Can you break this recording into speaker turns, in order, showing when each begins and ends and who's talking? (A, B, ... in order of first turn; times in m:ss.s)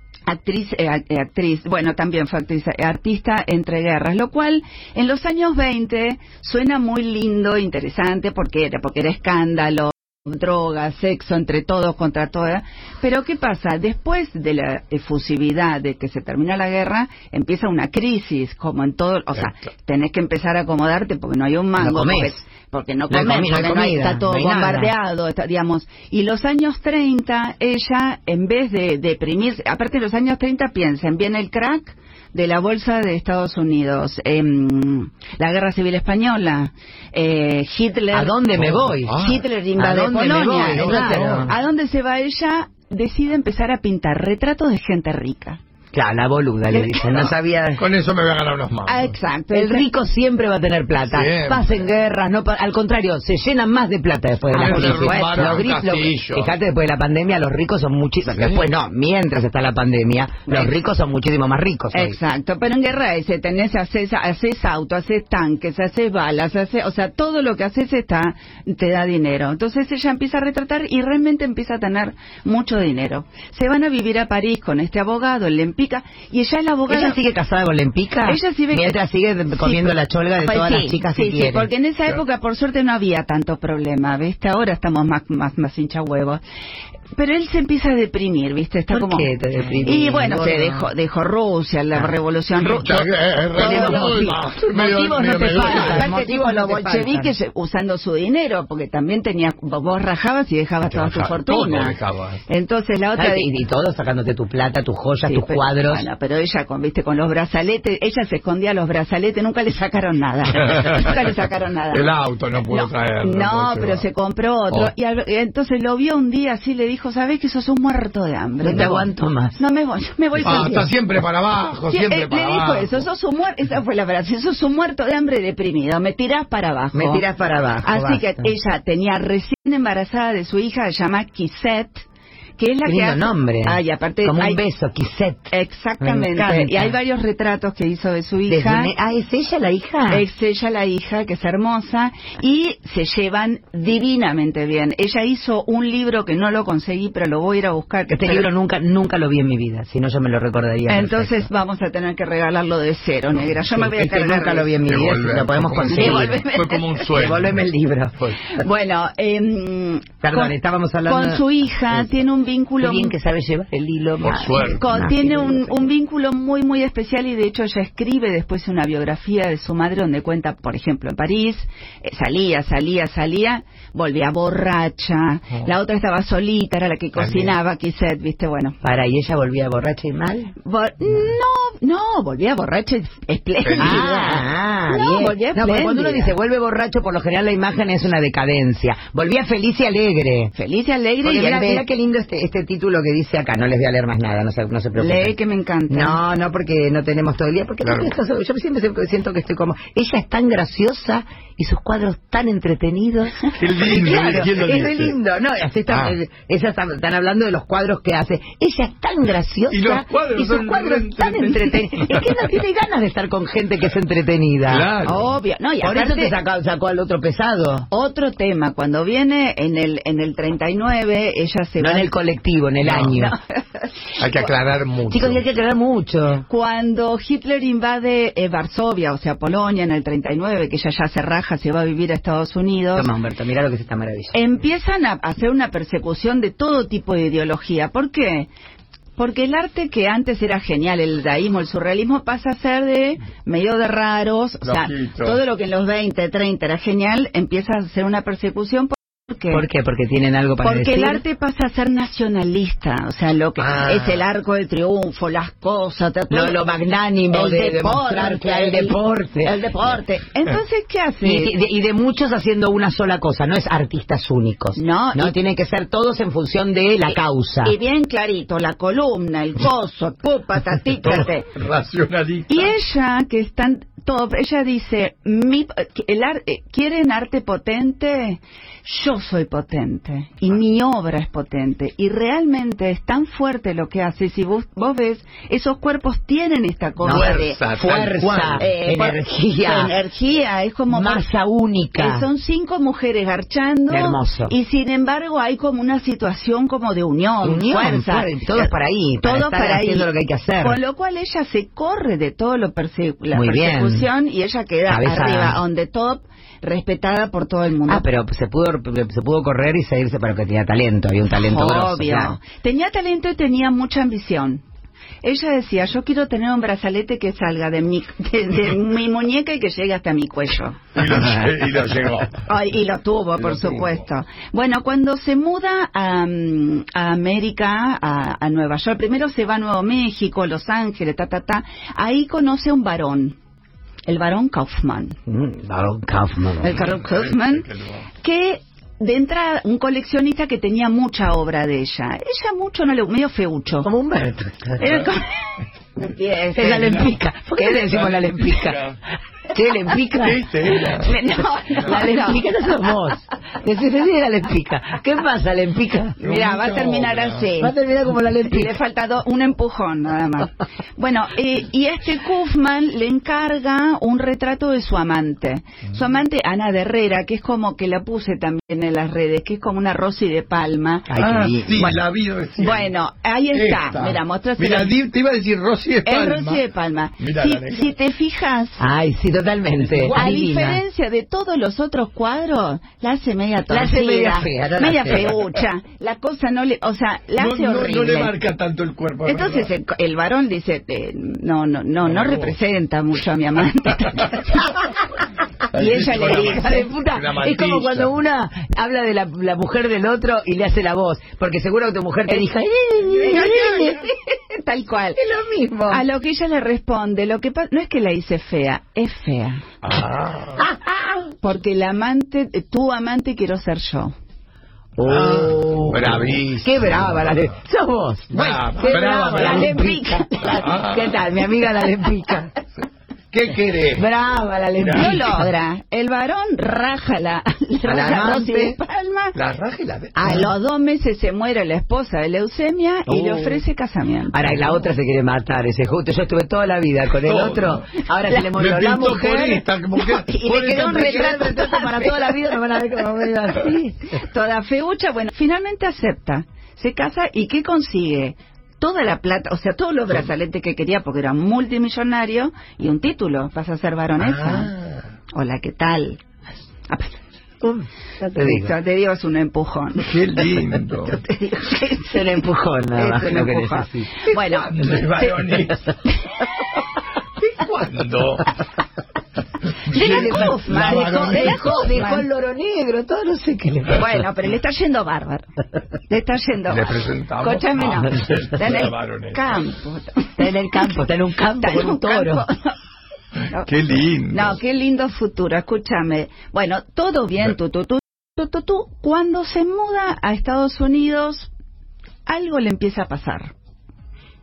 0:00.3-0:38.4 A
0:21.8-0:22.4 B
0:23.1-0:25.0 B
0:38.1-0:39.2 B
0:38.6-0:39.4 C
0:39.1-0:45.6 A
0:39.8-0:41.5 B
0:40.7-0:41.5 C
0:45.9-0:47.8 B
0:46.7-0:47.0 A
0:47.0-0:49.2 C
0:48.9-0:49.9 A
0:49.5-1:02.2 B
0:51.0-0:51.8 C
0:54.5-0:56.5 C
0:54.6-0:55.3 A
0:58.4-0:58.6 C
1:01.9-1:17.2 A
1:16.9-1:21.7 B
1:18.3-1:19.0 A
1:19.5-1:26.4 A
1:27.2-1:29.3 A
1:28.9-1:30.9 B
1:29.8-1:34.3 A
1:32.6-1:36.1 C
1:33.6-1:37.3 B
1:35.6-1:42.0 A
1:40.9-1:42.4 C
1:42.5-1:43.5 A
1:43.2-1:46.1 B
1:45.2-1:52.1 A
1:50.7-1:51.1 C
1:51.9-1:54.0 C
1:52.7-2:00.9 A
1:58.6-1:59.6 B
2:00.4-2:03.1 C
2:00.4-2:00.7 B
2:01.9-2:07.2 A
2:06.9-2:08.5 B
2:07.8-2:12.0 A
2:12.6-2:14.6 A
2:12.8-2:17.0 B
2:15.5-2:18.9 A
2:18.5-2:20.2 B
2:20.1-2:28.5 A
2:28.1-2:31.5 B
2:30.9-2:34.8 A
2:33.7-2:36.4 B
2:34.8-2:37.7 C
2:35.9-2:37.3 A
2:37.1-2:38.4 B
2:38.5-2:43.1 A
2:40.2-2:42.1 B
2:42.8-2:45.9 B
2:44.2-2:44.9 C
2:44.6-2:58.8 A
2:57.2-2:57.5 C
2:58.8-3:00.6 B
3:00.6-3:06.4 A
3:03.6-3:04.0 C
3:03.8-3:10.5 B
3:10.6-3:11.8 A
3:11.2-3:15.4 B
3:15.0-3:16.2 A
3:15.9-3:34.9 B
3:17.8-3:18.1 C
3:23.6-3:25.2 C
3:25.9-3:26.2 C
3:29.7-3:32.4 C
3:34.7-3:35.3 C
3:35.0-3:36.4 A
3:35.8-3:37.9 B
3:37.9-3:42.1 A
3:41.8-3:43.4 B
3:42.8-3:43.2 C
3:43.2-3:43.9 A
3:44.2-3:45.4 C
3:45.1-3:46.5 B
3:46.5-3:53.1 A
3:53.0-3:54.4 B
3:54.3-3:58.5 A
3:59.2-4:09.6 A
4:04.6-4:05.4 C
4:09.5-4:11.2 B
4:10.6-4:16.6 A
4:16.3-4:20.0 B
4:17.3-4:21.5 A
4:21.2-4:27.8 B
4:24.8-4:25.4 A
4:27.6-4:31.5 A
4:31.0-4:32.7 C
4:32.5-4:47.6 A
4:47.0-4:49.9 B
4:47.1-4:48.6 C
4:48.6-4:51.3 A
4:50.9-4:52.3 B
4:52.0-5:00.1 A
4:53.9-4:54.5 B
4:57.4-5:00.8 B
5:00.6-5:08.1 A
5:03.3-5:04.1 B
5:04.9-5:05.6 B
5:07.9-5:12.4 B
5:11.3-5:14.6 A
5:15.2-5:21.0 A
5:21.0-5:22.4 C
5:22.5-5:33.4 A
5:23.4-5:24.0 C
5:34.1-5:35.2 A
5:35.3-5:36.8 B
5:36.6-5:37.7 A
5:36.7-5:38.1 C
5:38.2-5:43.9 A
5:43.8-5:45.1 B
5:44.8-5:45.4 A
5:46.0-5:47.1 A
5:46.6-5:48.8 B
5:47.7-5:49.0 C
5:49.5-5:51.0 B
5:50.2-5:51.1 C
5:50.9-5:52.5 A
5:51.8-5:56.2 B
5:56.2-5:57.8 A
5:56.2-5:57.5 C
5:57.6-5:58.7 B
5:58.3-6:11.1 A
6:11.1-6:12.0 B
6:11.2-6:12.9 C
6:12.6-6:14.9 A
6:13.5-6:16.6 C
6:16.0-6:18.8 A
6:17.2-6:17.9 C
6:18.8-6:20.8 B
6:19.9-6:20.3 C
6:20.1-6:28.3 A
6:23.7-6:25.4 B
6:27.4-6:29.7 C
6:29.2-6:34.8 A
6:32.1-6:32.5 C
6:35.7-6:36.9 A
6:35.7-6:38.1 C
6:36.1-6:44.1 B
6:43.1-6:45.2 A
6:45.2-6:46.0 B
6:45.9-6:49.6 A
6:49.8-6:50.6 C
6:50.6-6:51.3 B
6:51.4-6:54.2 A
6:55.0-7:02.5 B
6:55.0-6:57.5 C
6:58.3-6:59.9 C
6:59.1-7:00.7 A
7:00.4-7:01.2 C
7:03.3-7:04.1 C
7:03.9-7:05.4 B
7:04.8-7:05.2 C
7:04.9-7:09.4 A
7:07.8-7:08.8 B
7:09.4-7:10.4 C
7:10.2-7:14.8 A
7:13.1-7:13.6 B
7:14.3-7:19.7 B
7:17.2-7:21.4 C
7:20.0-7:22.4 A
7:20.3-7:24.0 B
7:24.2-7:34.7 A
7:34.3-7:34.7 B
7:35.3-7:36.2 A
7:36.9-7:37.2 A
7:37.6-7:38.7 B
7:38.3-7:40.1 A
7:40.0-7:41.2 C
7:41.1-7:42.4 A
7:42.0-7:44.3 B
7:43.0-7:45.6 A
7:44.3-7:46.0 C
7:47.5-7:48.5 C
7:49.8-7:51.7 C
7:49.9-7:52.3 A
7:49.9-7:54.2 B
7:53.9-7:55.5 A
7:56.1-8:00.9 A
7:56.7-7:59.6 C
8:00.4-8:02.5 B
8:01.6-8:02.8 A
8:03.6-8:04.6 C
8:04.3-8:11.5 A
8:12.3-8:13.5 A